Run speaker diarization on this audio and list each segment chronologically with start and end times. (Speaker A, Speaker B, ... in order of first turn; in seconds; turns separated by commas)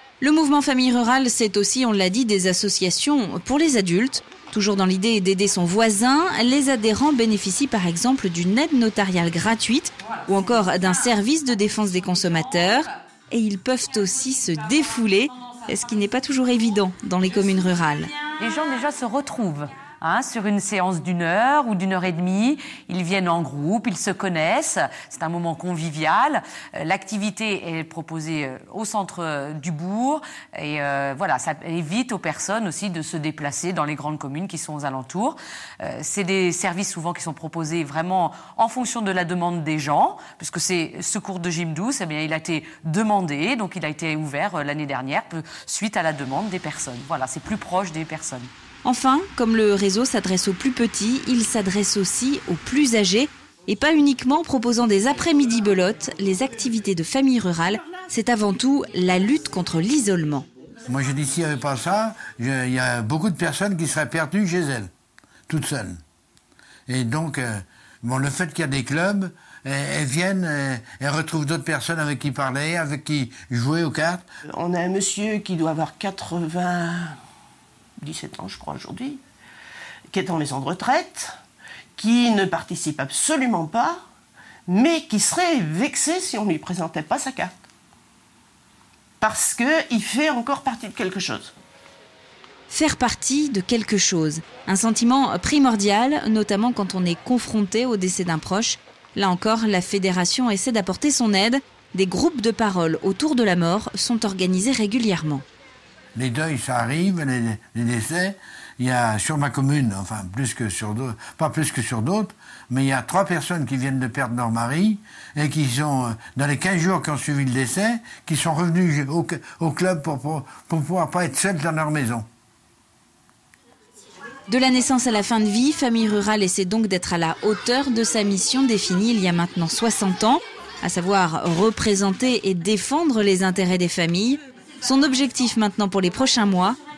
Speaker A: 0.2-18.1, Speaker B: 18.4-48.5, Speaker A: 48.8-60.5, Speaker C: 60.9-64.9, Speaker C: 65.5-66.0, Speaker C: 66.9-74.2, Speaker D: 74.5-77.2, Speaker D: 78.0-79.2, Speaker D: 80.1-81.4, Speaker D: 82.0-84.0, Speaker D: 84.7-87.5, Speaker D: 89.2-91.5, Speaker A: 92.7-105.4, Speaker C: 106.1-122.2, Speaker A: 124.5-136.8